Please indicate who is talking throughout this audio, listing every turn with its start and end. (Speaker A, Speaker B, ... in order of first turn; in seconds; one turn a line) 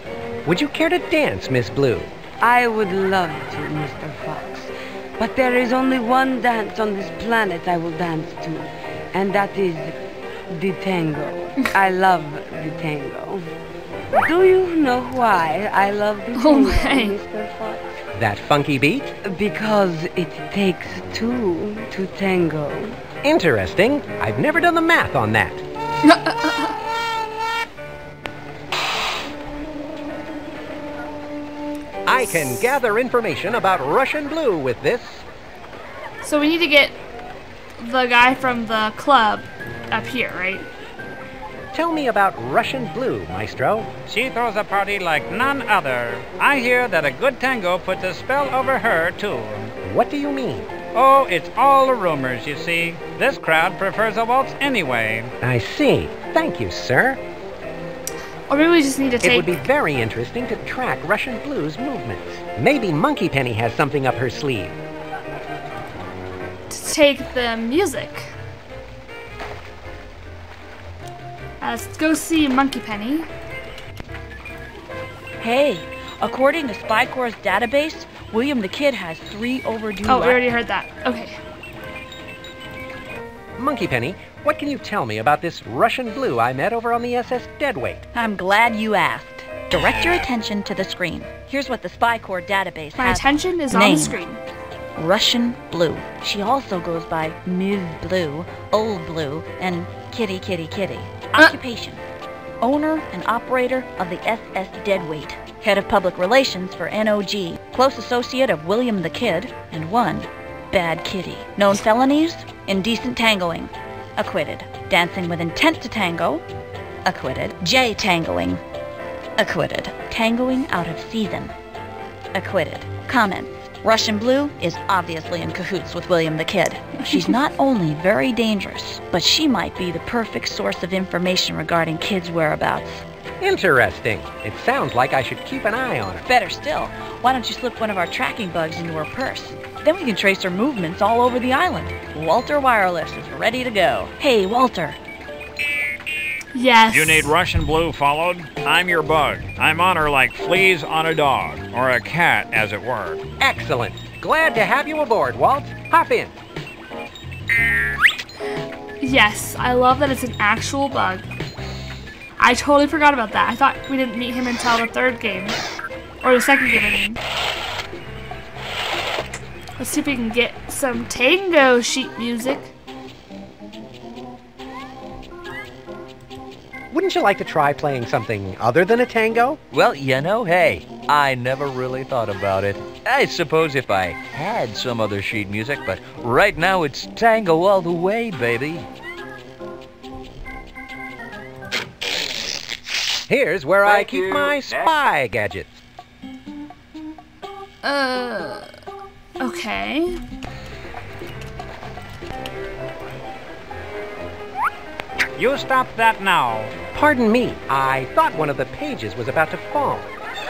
Speaker A: 0.5-2.1
Speaker B: 2.4-10.0
Speaker B: 10.5-13.5
Speaker B: 14.1-17.9
Speaker C: 16.4-17.1
Speaker A: 18.1-19.1
Speaker B: 19.2-23.0
Speaker A: 23.2-25.6
Speaker C: 26.0-26.7
Speaker A: 32.0-35.2
Speaker C: 36.2-37.0
Speaker C: 37.8-40.7
Speaker A: 41.7-43.9
Speaker D: 44.1-49.7
Speaker A: 49.8-50.7
Speaker D: 50.9-55.3
Speaker A: 55.4-57.2
Speaker C: 58.5-59.6
Speaker A: 59.2-64.8
Speaker C: 66.7-68.3
Speaker C: 71.6-73.3
Speaker E: 75.4-80.4
Speaker C: 80.1-81.4
Speaker A: 83.6-88.0
Speaker E: 88.1-94.2
Speaker C: 93.0-94.4
Speaker E: 95.0-102.0
Speaker E: 102.6-116.4
Speaker E: 117.0-118.6
Speaker E: 119.4-121.5
Speaker E: 122.3-133.0
Speaker A: 133.4-136.3
Speaker E: 136.3-145.0
Speaker C: 146.5-147.3
Speaker D: 146.9-153.2
Speaker A: 153.4-156.4
Speaker C: 159.0-161.3
Speaker C: 162.4-165.6
Speaker C: 166.2-167.2
Speaker C: 169.8-172.7
Speaker A: 176.9-179.6
Speaker F: 179.7-188.9
Speaker A: 193.3-195.8
Speaker C: 197.8-198.7
Speaker C: 199.4-200.2
Speaker D: 205.4-206.8
Speaker A: 206.9-210.1